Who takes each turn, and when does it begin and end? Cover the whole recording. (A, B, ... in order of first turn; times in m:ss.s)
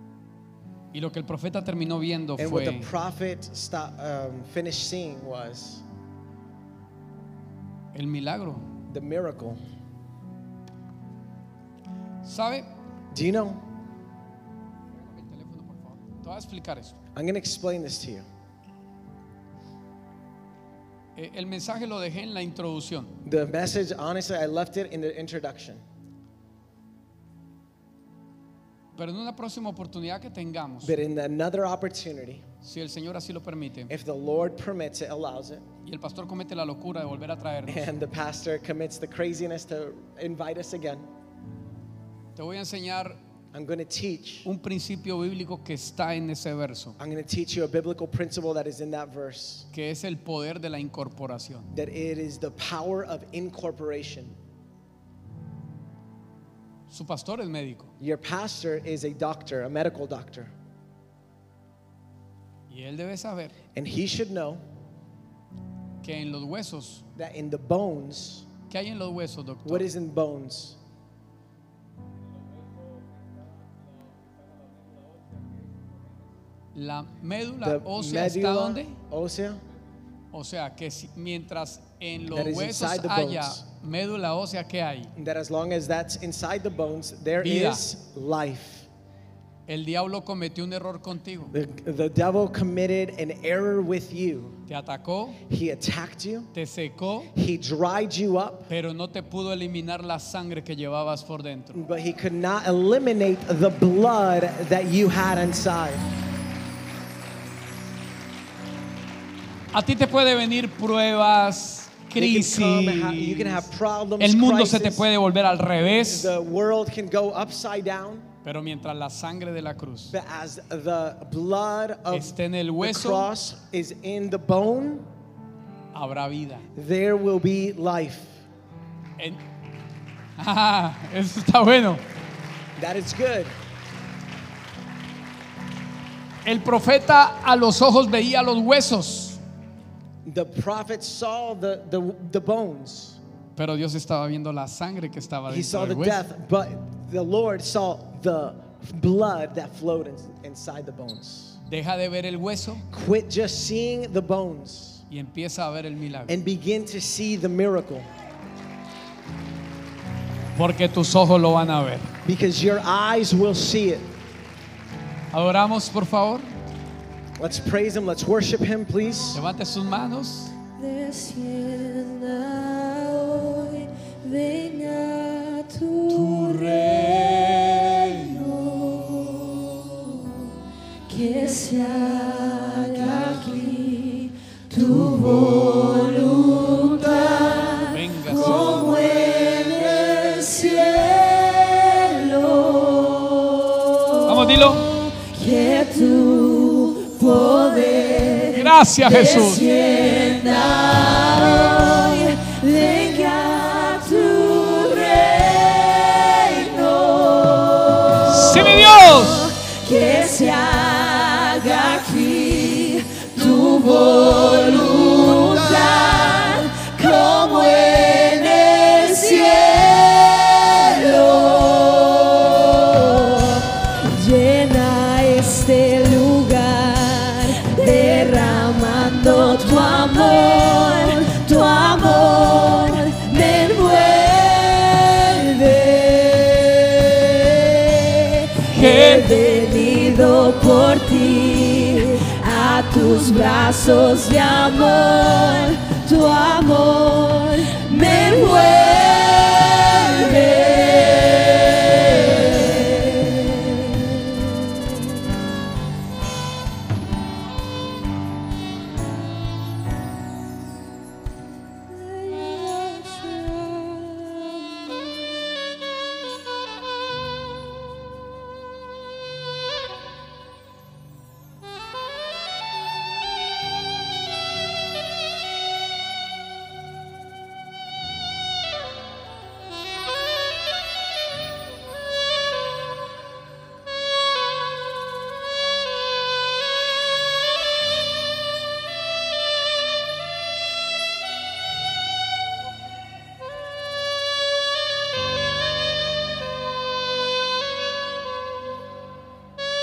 0:00.9-0:02.9 A
0:02.4-0:05.8 B
0:07.9-0:08.7 A
0:08.9-0:09.6 B
0:12.2-0:12.7 A
0:13.1-0:13.6 B
0:15.0-0:17.0 A
0:17.2-0:18.3 B
0:21.2-0:23.2 A
0:23.2-0:25.8 B
0:29.0-0:31.0 A
0:30.8-0:32.5 B
0:32.6-0:33.9 A
0:33.9-0:35.7 B
0:35.8-0:37.9 A
0:37.7-0:41.1 B
0:42.4-0:43.2 A
0:43.5-0:44.5 B
0:44.4-0:47.0 A
0:47.0-0:49.7 B
0:49.7-0:51.7 A
0:51.7-0:54.4 B
0:56.9-0:57.9 A
0:58.0-1:00.5 B
1:02.7-1:03.6 A
1:03.7-1:04.6 B
1:06.0-1:07.0 A
1:07.2-1:08.5 B
1:08.7-1:09.9 A
1:09.6-1:10.8 B
1:16.8-1:19.0 A
1:17.6-1:19.6 B
1:20.3-1:25.1 A
1:22.3-1:23.6 B
1:25.2-1:28.9 B
1:27.4-1:27.9 A
1:29.7-1:31.6 A
1:31.5-1:34.6 B
1:34.7-1:35.4 A
1:35.5-1:36.5 B
1:36.5-1:37.3 A
1:37.3-1:38.7 B
1:38.7-1:41.8 A
1:41.7-1:46.1 B
1:49.7-1:56.3 A
1:52.2-1:55.1 B
1:56.0-1:58.3 B
1:58.4-2:00.2 A
2:00.1-2:05.1 B
2:02.1-2:03.3 A
2:05.9-2:06.7 A
2:06.8-2:08.4 B
2:10.4-2:12.0 A
2:12.8-2:13.6 B
2:16.4-2:19.4 A
2:20.2-2:23.2 B
2:23.6-2:26.2 A
2:25.5-2:31.6 B
2:31.6-2:32.9 A
2:32.9-2:35.0 B
2:35.1-2:36.4 A
2:36.3-2:38.1 B
2:40.5-2:42.1 A
2:42.2-2:44.1 B
2:45.3-2:46.6 A
2:47.4-2:49.4 B
2:49.3-2:50.5 A
2:50.8-2:57.0 C
2:56.1-2:58.4 A
2:58.2-2:59.6 C
3:00.2-3:00.5 C
3:01.1-3:14.1 C
3:07.8-3:09.0 A
3:14.2-3:14.9 A
3:15.1-4:14.8 C
3:18.5-3:19.7 A
3:28.3-3:29.5 A
3:58.6-3:59.4 A
4:21.9-4:25.0 C